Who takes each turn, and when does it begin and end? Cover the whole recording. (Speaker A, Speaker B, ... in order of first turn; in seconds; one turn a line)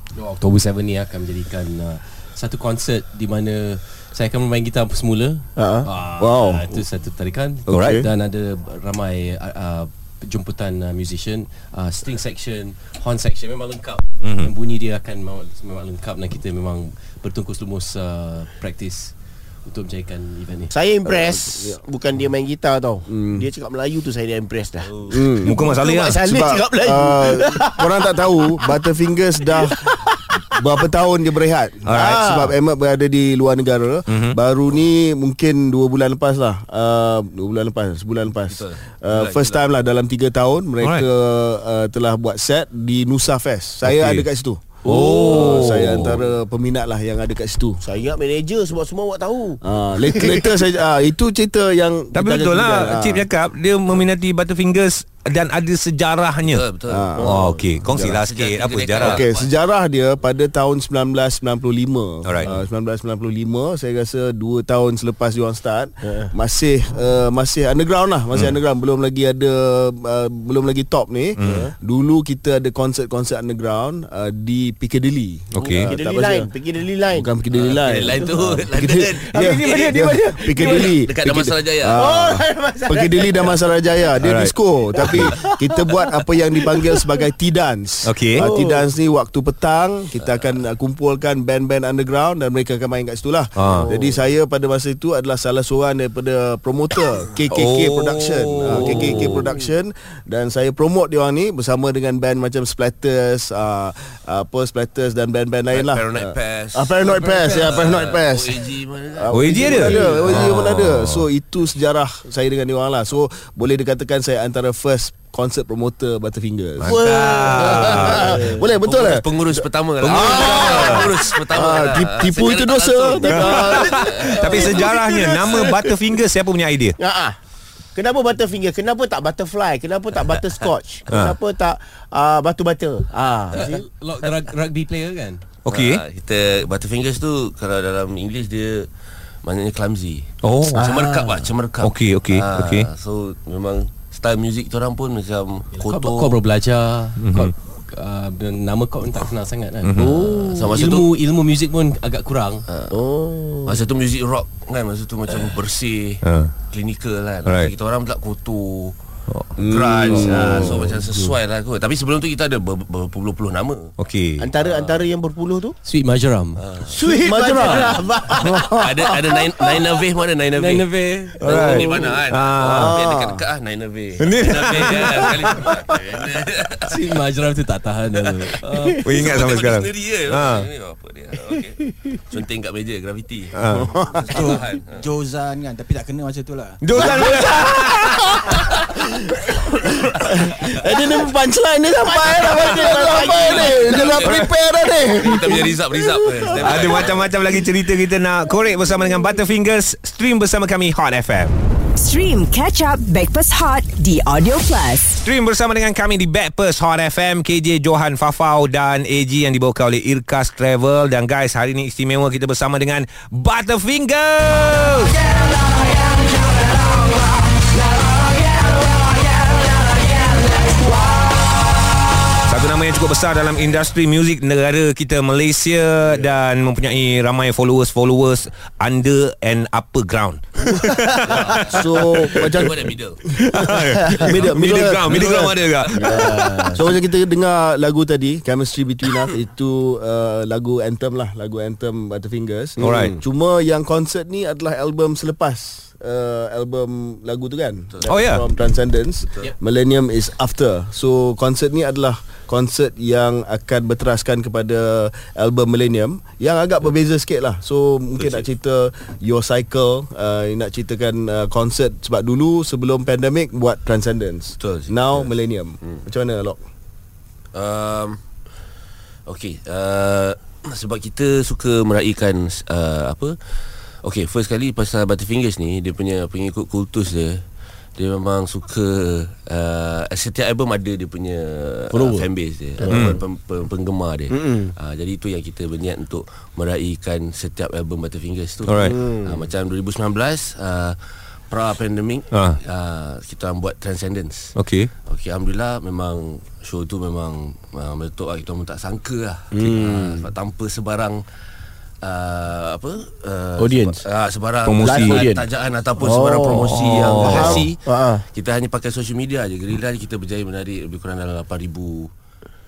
Speaker A: 0.1-20.7
Speaker B: 5.6-5.9
Speaker C: 6.2-6.7
Speaker C: 7.7-8.1
Speaker D: 7.7-8.0
Speaker D: 14.2-14.5
Speaker B: 20.7-28.6
Speaker C: 21.0-21.8
Speaker C: 23.1-23.5
Speaker C: 25.1-25.6
Speaker D: 25.4-26.2
Speaker C: 26.1-29.9
Speaker B: 29.5-30.6
Speaker C: 30.5-47.8
Speaker D: 31.9-32.2
Speaker B: 31.9-32.5
Speaker D: 34.1-34.4
Speaker E: 38.5-39.7
Speaker D: 40.8-41.0
Speaker D: 43.8-44.2
Speaker D: 44.8-46.2
Speaker B: 47.8-49.6
Speaker C: 49.6-53.2
Speaker D: 52.1-56.6
Speaker E: 56.4-59.5
Speaker C: 56.9-57.3
Speaker B: 57.2-58.1
Speaker D: 57.2-59.2
Speaker C: 59.0-76.5
Speaker B: 66.0-66.3
Speaker D: 71.3-71.7
Speaker B: 71.4-71.7
Speaker D: 75.5-75.9
Speaker B: 75.8-77.3
Speaker C: 77.0-117.0
Speaker E: 77.5-82.1
Speaker B: 79.3-80.9
Speaker B: 82.0-83.6
Speaker D: 84.2-84.5
Speaker B: 85.0-87.0
Speaker D: 88.0-88.4
Speaker B: 88.4-88.8
Speaker D: 93.5-93.9
Speaker B: 93.8-94.2
Speaker D: 97.5-99.5
Speaker E: 98.7-99.7
Speaker E: 105.7-110.6
Speaker D: 109.3-111.2
Speaker D: 116.8-118.4
Speaker B: 116.8-118.6
Speaker C: 117.5-125.7
Speaker E: 117.6-124.8
Speaker D: 120.0-121.0
Speaker B: 120.1-121.0
Speaker D: 123.3-127.0
Speaker E: 125.5-125.8
Speaker B: 127.0-127.4
Speaker B: 127.9-133.8
Speaker D: 131.1-131.3
Speaker A: 133.5-135.5
Speaker D: 135.6-136.0
Speaker E: 135.7-138.9
Speaker E: 139.4-146.4
Speaker D: 140.4-140.8
Speaker B: 140.7-141.5
Speaker D: 141.8-142.9
Speaker A: 145.7-152.6
Speaker D: 147.2-147.5
Speaker D: 149.8-150.2
Speaker B: 150.0-150.7
Speaker E: 150.0-151.1
Speaker E: 152.7-152.9
Speaker B: 152.9-153.8
Speaker E: 153.6-158.9
Speaker D: 156.2-156.5
Speaker D: 157.4-157.7
Speaker C: 159.6-161.3
Speaker E: 159.6-163.9
Speaker B: 160.1-160.8
Speaker D: 164.0-164.5
Speaker B: 164.4-165.7
Speaker E: 164.6-165.1
Speaker A: 165.8-166.6
Speaker E: 166.6-166.9
Speaker B: 166.9-168.8
Speaker C: 166.9-169.4
Speaker E: 167.6-168.0
Speaker E: 168.8-170.9
Speaker A: 170.5-172.2
Speaker D: 171.4-172.9
Speaker E: 171.4-177.0
Speaker C: 172.7-173.4
Speaker B: 172.8-173.2
Speaker D: 174.2-175.4
Speaker A: 176.9-179.0
Speaker E: 178.2-185.0
Speaker D: 179.0-180.7
Speaker D: 183.5-183.9
Speaker C: 183.7-184.5
Speaker F: 184.2-186.9
Speaker D: 186.8-188.6
Speaker C: 187.0-187.6
Speaker B: 187.2-187.7
Speaker C: 190.3-197.1
Speaker B: 192.0-194.2
Speaker E: 193.2-197.3
Speaker D: 196.6-201.6
Speaker G: 201.9-205.2
Speaker D: 205.2-215.3
Speaker D: 222.4-232.5
Speaker E: 231.3-233.2
Speaker C: 231.7-235.5
Speaker D: 233.4-236.8
Speaker E: 234.2-235.5
Speaker B: 235.9-237.0
Speaker C: 236.7-266.6
Speaker D: 242.8-243.1
Speaker B: 242.8-243.2
Speaker E: 247.9-248.4
Speaker D: 248.1-248.4
Speaker E: 258.2-258.5
Speaker E: 264.6-265.3
Speaker E: 267.5-268.2
Speaker E: 269.2-277.4
Speaker E: 277.9-291.0
Speaker B: 281.9-282.2
Speaker B: 282.8-283.2
Speaker D: 282.9-283.2
Speaker B: 284.3-284.7
Speaker D: 288.7-288.9
Speaker B: 288.8-289.4
Speaker E: 291.5-301.2
Speaker D: 292.3-292.6
Speaker D: 294.6-294.9
Speaker B: 299.5-300.3
Speaker E: 302.0-312.1
Speaker B: 303.6-303.9
Speaker A: 303.6-304.0
Speaker D: 304.6-305.3
Speaker B: 304.8-305.4
Speaker B: 306.0-308.2
Speaker D: 306.6-307.7